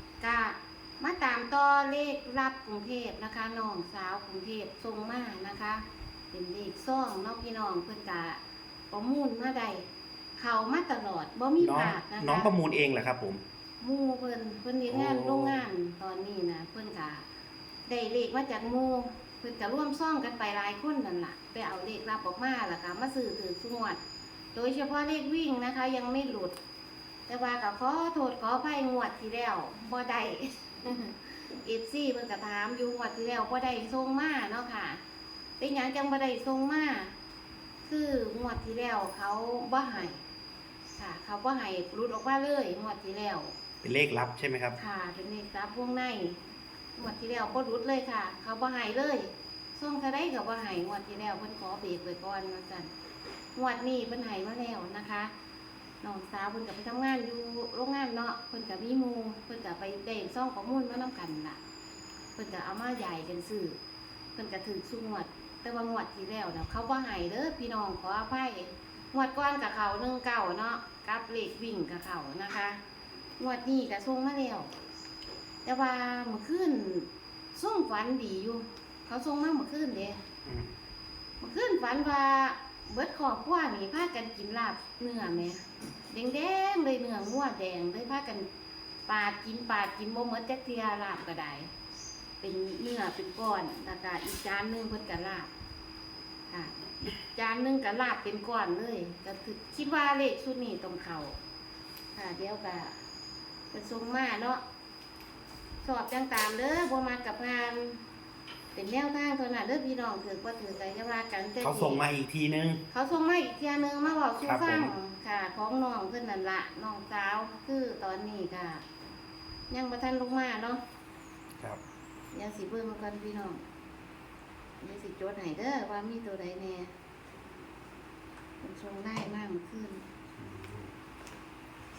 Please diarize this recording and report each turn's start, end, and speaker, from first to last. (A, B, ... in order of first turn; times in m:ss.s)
0:00.2-0:08.4 A
0:08.9-0:09.9 A
0:10.4-0:12.5 A
0:11.6-0:13.4 B
0:13.8-0:17.2 A
0:14.9-0:15.6 B
0:17.9-0:24.0 A
0:24.6-0:26.6 A
0:27.3-0:35.0 A
0:35.6-0:37.1 A
0:37.9-0:40.2 A
0:41.0-0:43.5 A
0:43.8-0:44.8 B
0:44.8-0:46.4 A
0:47.0-0:52.9 A
0:53.6-0:55.3 A
0:56.0-1:01.6 A
1:02.4-1:03.8 A
1:04.4-1:12.8 A
1:13.4-1:14.7 A
1:15.6-1:20.2 A
1:20.4-1:20.7 B
1:21.4-1:28.5 A
1:29.1-1:31.7 A
1:32.4-1:35.5 A
1:36.5-1:41.4 A
1:42.2-1:43.0 A
1:43.7-1:44.6 A
1:45.8-1:48.0 A
1:48.7-1:52.0 A
1:51.6-1:52.8 B
1:52.9-1:58.8 A
1:54.4-1:54.9 B
1:59.7-2:00.8 A
2:02.3-2:03.6 A
2:04.8-2:06.9 A
2:08.6-2:10.1 A
2:10.4-2:10.9 B